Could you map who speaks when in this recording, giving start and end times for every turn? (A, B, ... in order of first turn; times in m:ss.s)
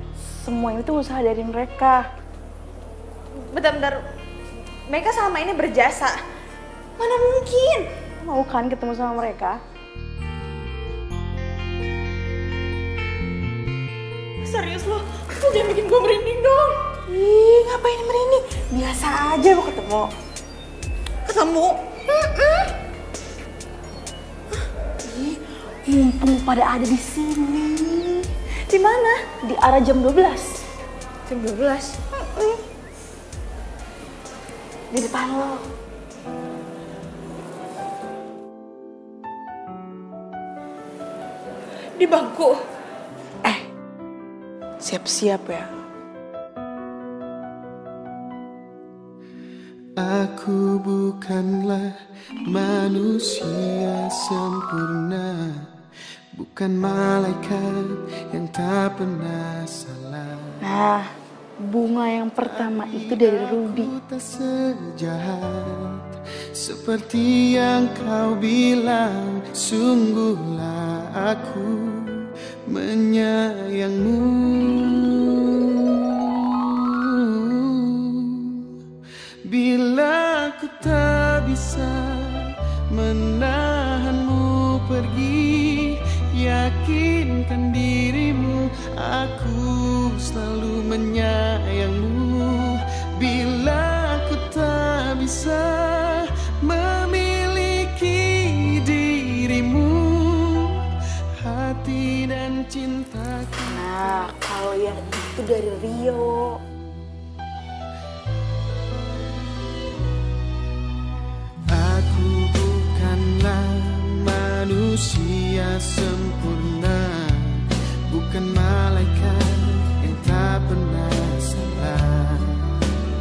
0:00.3-0:02.0 A
0:03.5-0:04.0 B
0:04.9-0:06.1 B
0:07.0-0:07.9 B
0:08.2-0:09.6 A
0:14.4-0:16.8 B
0:17.0-0:20.1 A
0:21.2-0:21.8 B
0:22.2-0:22.6 A
0:25.1-0:28.2 A
0:28.7-0:29.1 B
0:29.4-0:30.5 A
0:31.3-0:32.0 B
0:34.9-0:35.6 A
0:42.0-0:42.6 B
0:44.8-0:45.6 A
0:50.0-0:51.9 C
0:52.4-0:55.7 C
0:56.4-1:00.6 C
1:00.6-1:01.1 A
1:01.7-1:03.9 A
1:02.4-1:18.7 C
1:19.4-1:40.8 C
1:41.4-1:44.1 C
1:43.7-1:46.6 A
1:51.7-2:02.7 C